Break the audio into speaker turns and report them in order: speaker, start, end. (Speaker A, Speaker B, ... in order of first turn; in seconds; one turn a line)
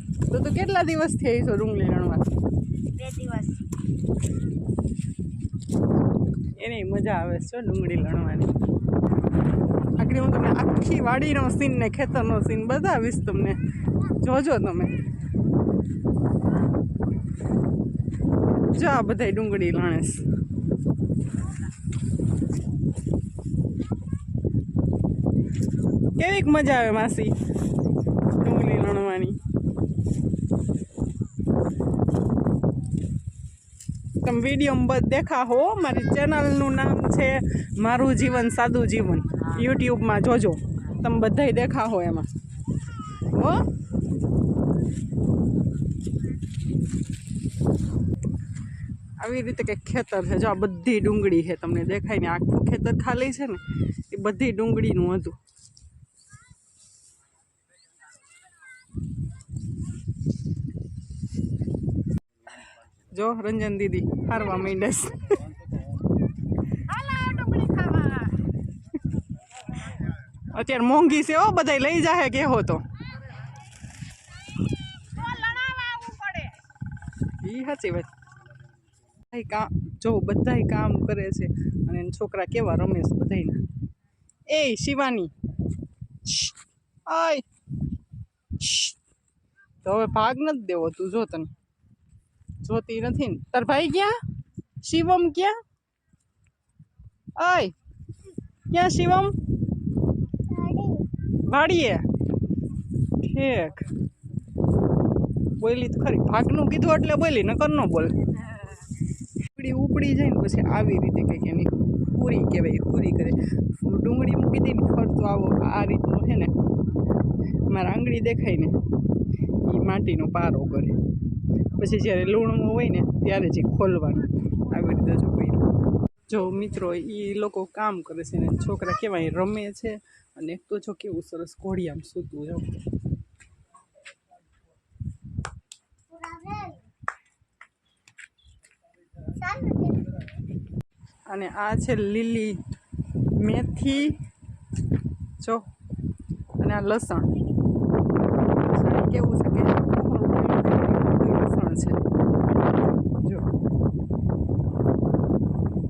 Speaker A: 0.3-2.3
Speaker B: 2.9-3.7
Speaker A: 6.6-8.5
Speaker A: 10.0-13.6
Speaker A: 14.2-15.0
Speaker A: 18.7-20.2
Speaker A: 26.1-27.3
Speaker A: 28.3-29.4
Speaker A: 34.2-42.3
Speaker A: 43.2-43.6
Speaker A: 49.2-55.4
Speaker A: 63.1-65.4
Speaker A: 66.9-68.4
Speaker A: 70.5-72.8
Speaker A: 75.2-76.5
Speaker A: 77.4-78.1
Speaker A: 79.2-83.6
Speaker A: 84.5-85.3
Speaker A: 86.2-87.4
Speaker A: 88.6-89.0
Speaker A: 89.8-91.5
Speaker A: 92.6-94.2
Speaker A: 94.8-95.6
Speaker A: 97.3-97.7
Speaker A: 98.7-99.3
Speaker B: 100.5-101.1
Speaker A: 101.3-102.1
Speaker A: 103.2-103.9
Speaker A: 105.6-108.6
Speaker A: 109.4-116.5
Speaker A: 117.7-118.8
Speaker A: 119.6-120.9
Speaker A: 121.8-125.6
Speaker A: 126.3-132.8
Speaker B: 136.2-136.8
Speaker B: 139.4-140.0
Speaker A: 141.3-142.6
Speaker A: 143.3-144.2
Speaker A: 145.4-145.6
Speaker A: 146.6-147.3
Speaker A: 148.7-152.0
Speaker A: 153.2-153.5